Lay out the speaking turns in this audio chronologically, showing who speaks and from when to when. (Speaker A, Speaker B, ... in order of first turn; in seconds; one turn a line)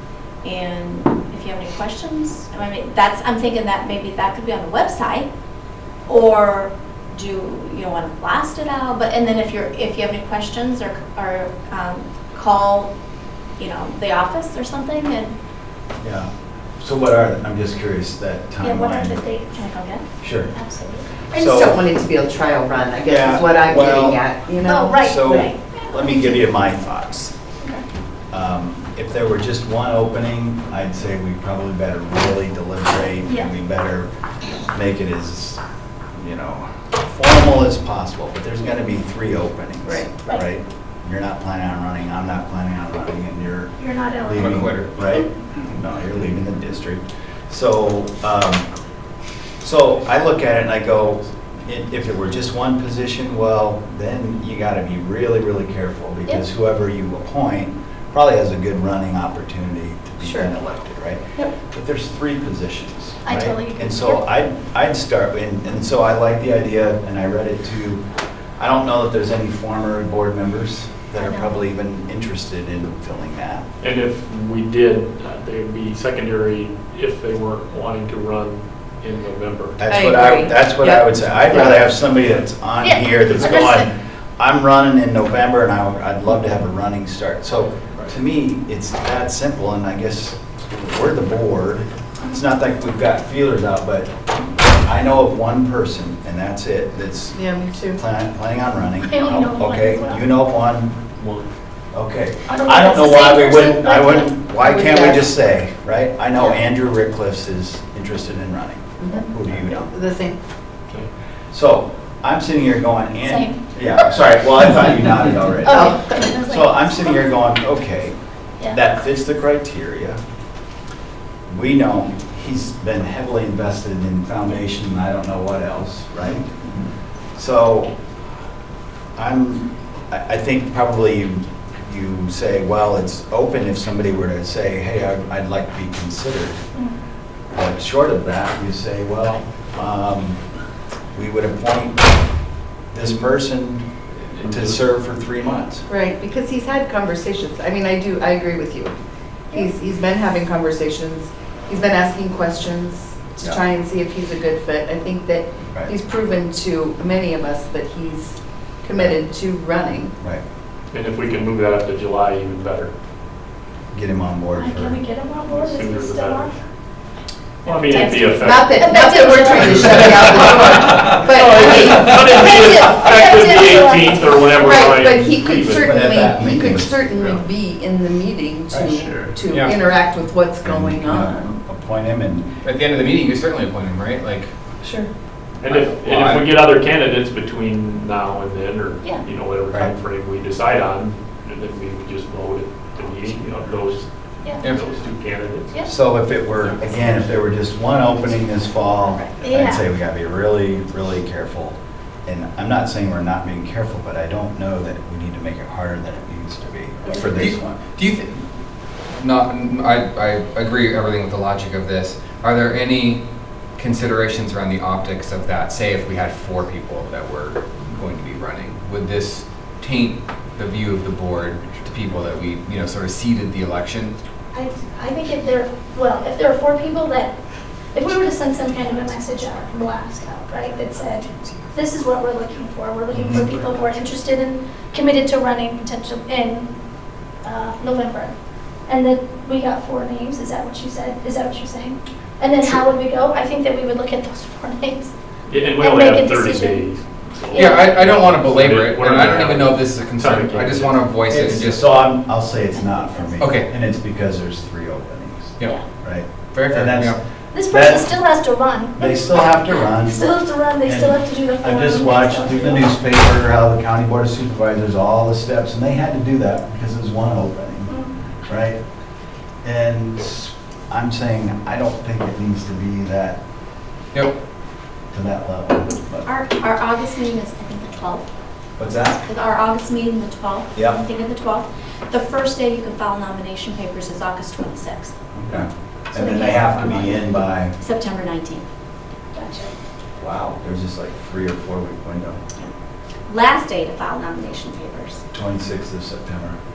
Speaker A: 0.4-5.3
Speaker A: 6.1-12.9
Speaker A: 13.6-15.3
Speaker B: 16.0-16.3
Speaker B: 16.8-19.2
Speaker C: 18.6-19.6
Speaker A: 19.5-20.0
Speaker B: 20.2-20.5
Speaker C: 20.5-21.1
Speaker B: 21.3-21.7
Speaker D: 21.3-25.5
Speaker B: 23.1-24.2
Speaker C: 24.6-26.4
Speaker B: 24.9-27.3
Speaker B: 28.3-34.1
Speaker C: 33.2-33.5
Speaker B: 34.7-35.6
Speaker B: 36.1-48.7
Speaker D: 39.8-40.2
Speaker C: 43.8-44.6
Speaker E: 44.3-45.0
Speaker B: 49.6-68.0
Speaker D: 60.2-60.5
Speaker C: 63.2-64.2
Speaker B: 68.6-73.6
Speaker A: 71.1-71.5
Speaker F: 73.8-79.8
Speaker B: 79.8-97.4
Speaker D: 79.9-81.8
Speaker C: 82.8-83.8
Speaker D: 97.3-98.0
Speaker B: 97.9-101.0
Speaker C: 99.0-100.2
Speaker F: 101.2-101.5
Speaker B: 101.9-109.9
Speaker C: 102.5-104.4
Speaker D: 104.6-105.3
Speaker D: 109.0-110.4
Speaker B: 111.5-118.2
Speaker C: 113.2-113.6
Speaker C: 115.6-117.2
Speaker D: 115.7-116.2
Speaker B: 118.7-120.2
Speaker B: 121.5-126.5
Speaker B: 127.3-127.9
Speaker B: 129.2-136.6
Speaker B: 137.5-140.4
Speaker B: 141.1-142.1
Speaker B: 142.9-143.8
Speaker F: 144.3-144.8
Speaker B: 144.4-145.8
Speaker D: 145.9-148.9
Speaker D: 149.5-160.1
Speaker F: 160.9-162.9
Speaker B: 163.9-165.0
Speaker C: 164.5-166.5
Speaker F: 165.4-166.6
Speaker F: 167.6-176.3
Speaker C: 167.7-169.8
Speaker D: 168.4-172.5
Speaker C: 172.4-174.7
Speaker D: 174.5-181.5
Speaker B: 175.7-176.9
Speaker F: 177.1-177.4
Speaker F: 178.9-179.4
Speaker E: 179.5-179.8
Speaker B: 180.6-182.5
Speaker E: 182.6-184.5
Speaker D: 184.8-185.1
Speaker F: 185.6-195.7
Speaker E: 185.6-186.5
Speaker B: 195.8-207.8
Speaker A: 199.0-199.3
Speaker C: 199.4-199.8
Speaker A: 207.0-207.3
Speaker E: 207.2-208.3
Speaker E: 209.2-213.2
Speaker E: 213.8-224.2
Speaker C: 224.5-227.3
Speaker C: 227.9-236.7
Speaker E: 230.7-231.7
Speaker B: 233.1-233.5
Speaker E: 233.3-233.7
Speaker C: 237.4-238.3
Speaker C: 238.8-245.1
Speaker F: 245.5-251.2
Speaker C: 245.8-246.9
Speaker C: 247.5-248.0
Speaker E: 247.5-251.8
Speaker B: 251.3-258.2
Speaker A: 252.7-253.4
Speaker E: 253.4-253.7
Speaker E: 256.4-257.2
Speaker C: 257.5-259.4
Speaker B: 259.0-268.8
Speaker C: 260.0-262.9
Speaker B: 269.6-273.4
Speaker B: 275.1-276.3
Speaker A: 276.2-278.3
Speaker B: 278.8-279.2
Speaker A: 279.2-285.1
Speaker B: 280.7-281.0
Speaker B: 285.3-287.7
Speaker A: 286.1-287.1
Speaker C: 286.4-287.2
Speaker A: 287.8-288.6
Speaker C: 289.3-289.7
Speaker B: 290.2-292.4
Speaker A: 293.3-295.2
Speaker B: 295.3-296.6